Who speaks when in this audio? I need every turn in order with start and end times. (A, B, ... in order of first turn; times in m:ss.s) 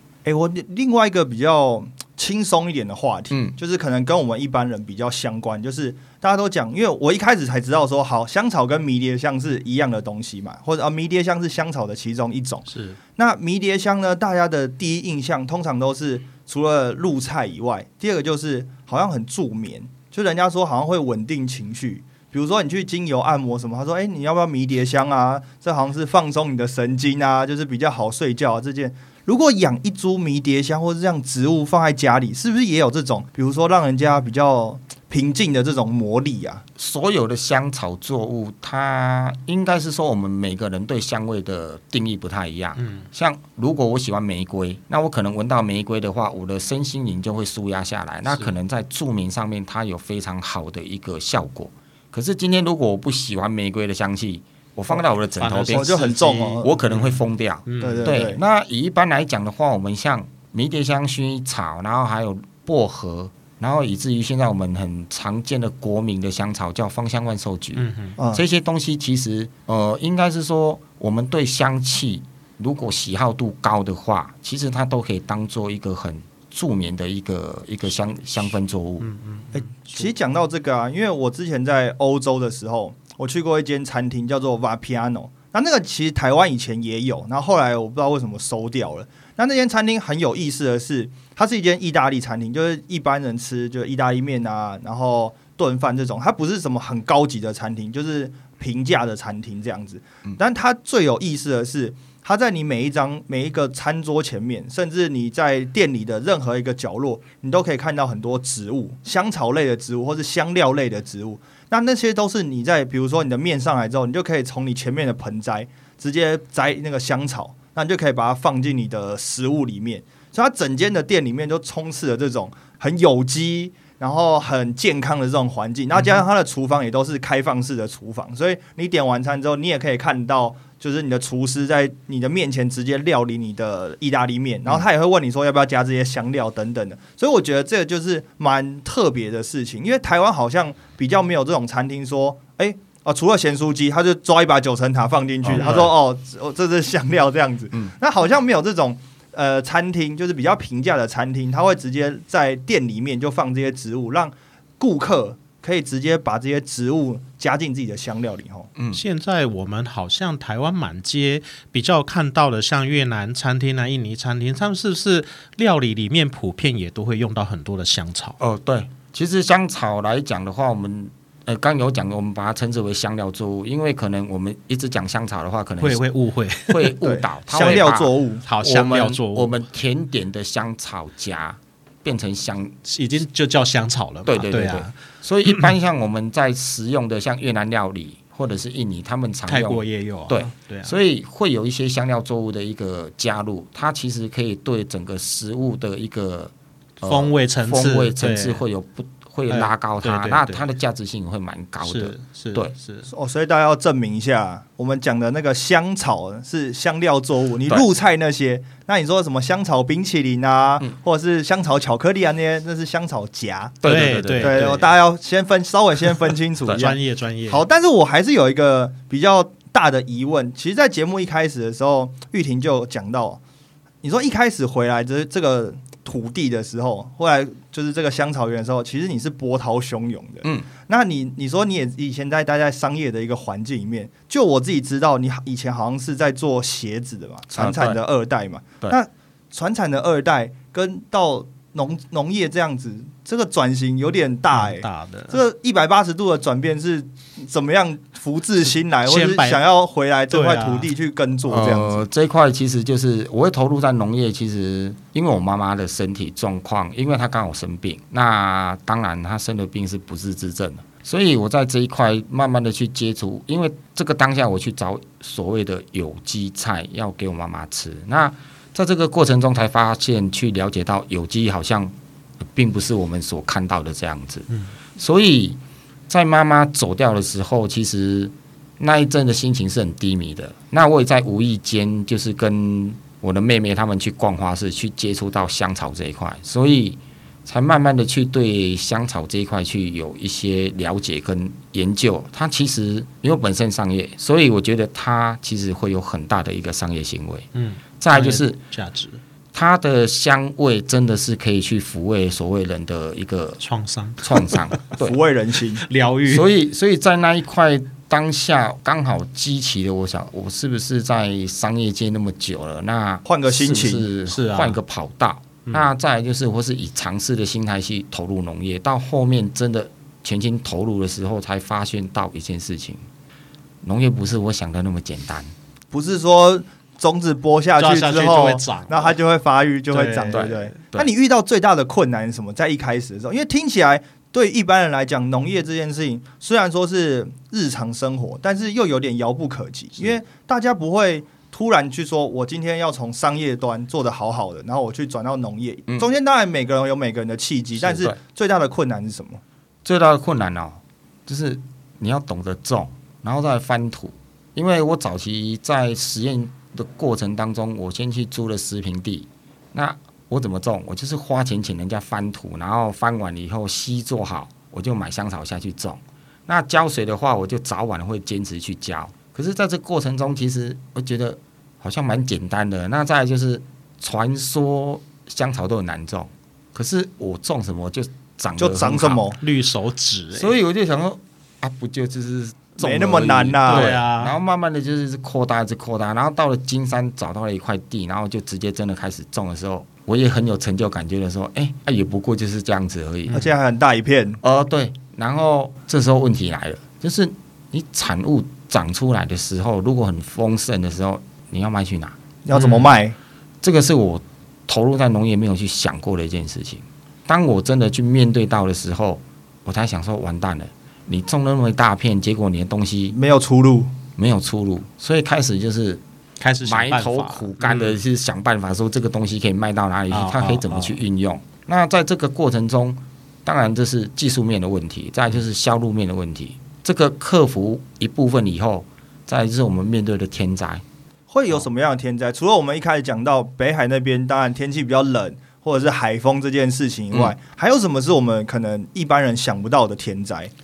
0:00.2-0:36.6 A
0:12.7-0:13.0 B
0:36.8-1:19.1 C
0:42.8-0:43.1 B
0:48.3-0:48.5 B
0:55.4-0:58.2 B
0:55.7-0:56.7 A
0:57.8-0:58.4 A
1:07.8-1:08.2 B
1:08.2-1:08.4 A
1:19.0-1:20.1 B
1:19.5-2:38.7 A
2:25.5-2:25.9 C
2:25.6-2:25.8 B
2:38.8-2:39.0 C
2:38.9-2:48.4 B
2:48.4-2:56.0 C
2:55.8-2:57.0 B
2:56.7-3:02.8 C
2:57.0-2:58.4 A
2:58.5-2:59.5 B
3:02.8-3:05.0 B
3:04.3-3:22.7 C
3:09.5-3:11.0 B
3:17.0-3:18.6 B
3:19.5-3:20.7 B
3:21.8-3:23.1 B
3:23.1-3:43.4 A
3:33.8-3:34.8 C
3:33.8-3:34.9 B
3:36.7-3:37.6 B
3:44.0-4:12.0 A
3:57.5-3:58.0 C
4:04.5-4:05.4 B
4:09.0-4:09.6 B
4:10.3-4:10.9 B
4:11.5-4:31.9 C
4:32.5-4:57.5 C
4:57.5-4:59.2 B
4:58.0-4:58.6 C
4:59.5-5:03.6 C
5:03.6-5:05.0 B
5:04.2-5:05.2 C
5:05.0-5:05.8 A
5:05.8-5:06.5 B
5:06.3-5:23.0 C
5:13.3-5:14.1 A
5:14.3-5:14.8 B
5:23.8-5:25.5 C
5:25.9-5:49.4 A
5:27.8-5:29.2 B
5:29.9-5:30.7 B
5:30.3-5:31.1 C
5:47.8-5:48.2 C
5:49.8-6:19.2 C
6:18.6-6:19.4 A
6:19.4-6:20.6 B
6:20.3-6:33.4 C
6:22.8-6:24.0 A
6:23.7-6:24.4 B
6:33.3-6:33.5 B
6:33.3-6:34.4 A
6:34.4-6:42.2 C
6:42.4-6:43.2 A
6:42.5-6:42.9 B
6:43.6-6:53.2 C
6:53.1-6:53.9 A
6:54.2-6:56.0 C
6:56.4-6:58.0 B
6:56.6-7:10.8 C
7:00.1-7:01.0 B
7:11.3-7:20.5 A